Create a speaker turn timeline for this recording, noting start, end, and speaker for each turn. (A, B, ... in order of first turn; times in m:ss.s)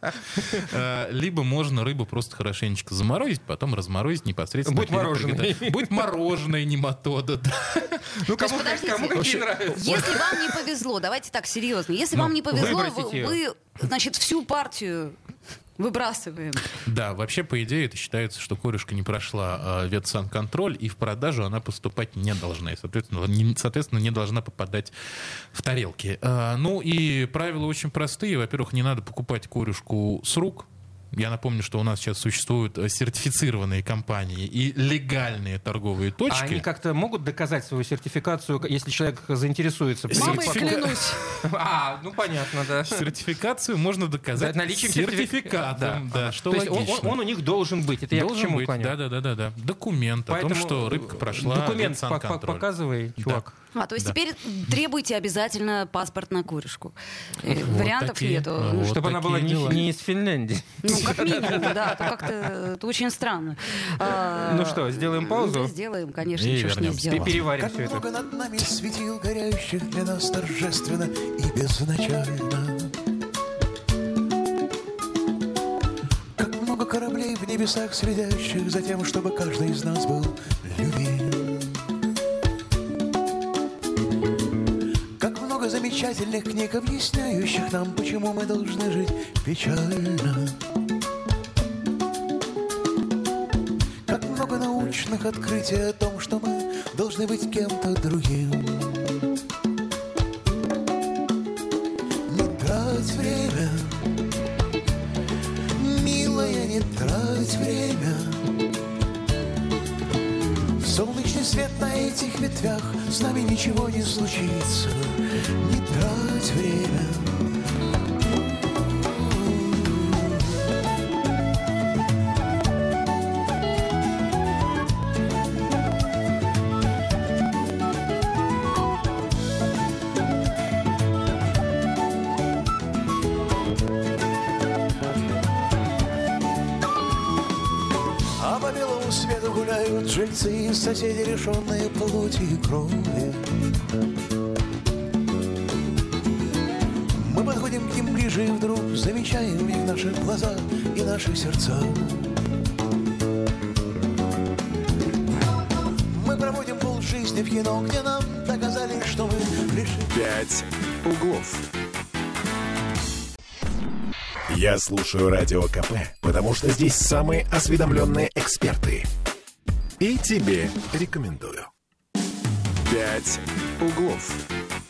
0:00.4-0:08.2 A
0:04.6-0:05.9 B
0:08.2-0:10.3 B
0:08.4-0:15.2 C
0:09.1-0:10.1 A
0:12.1-0:12.8 A
0:12.4-0:13.4 B
0:15.8-0:16.7 C
0:16.8-0:24.9 A
0:25.5-0:36.6 A
0:36.3-0:40.9 B
0:40.1-0:41.1 A
0:40.1-0:41.2 C
0:41.4-0:43.1 B
0:42.8-0:47.2 A
0:44.4-0:48.9 B
0:48.1-0:52.7 A
0:50.3-0:53.5 B
0:53.2-0:53.4 A
0:53.7-0:58.9 C
0:57.5-0:59.9 A
0:58.7-1:02.1 B
1:00.8-1:07.3 C
1:04.3-1:05.7 B
1:06.3-1:07.5 A
1:07.1-1:08.0 B
1:07.5-1:12.9 D
1:16.4-1:21.8 D
1:25.2-1:30.6 D
1:34.1-1:39.3 D
1:42.3-1:44.0 D
1:45.8-1:48.5 D
1:50.8-1:57.4 D
1:59.0-2:00.5 D
2:18.4-2:23.4 D
2:27.1-2:32.4 D
2:36.1-2:40.1 D
2:40.1-2:41.7 E
2:44.5-2:49.1 E
2:50.0-2:51.7 E
2:52.9-2:54.4 E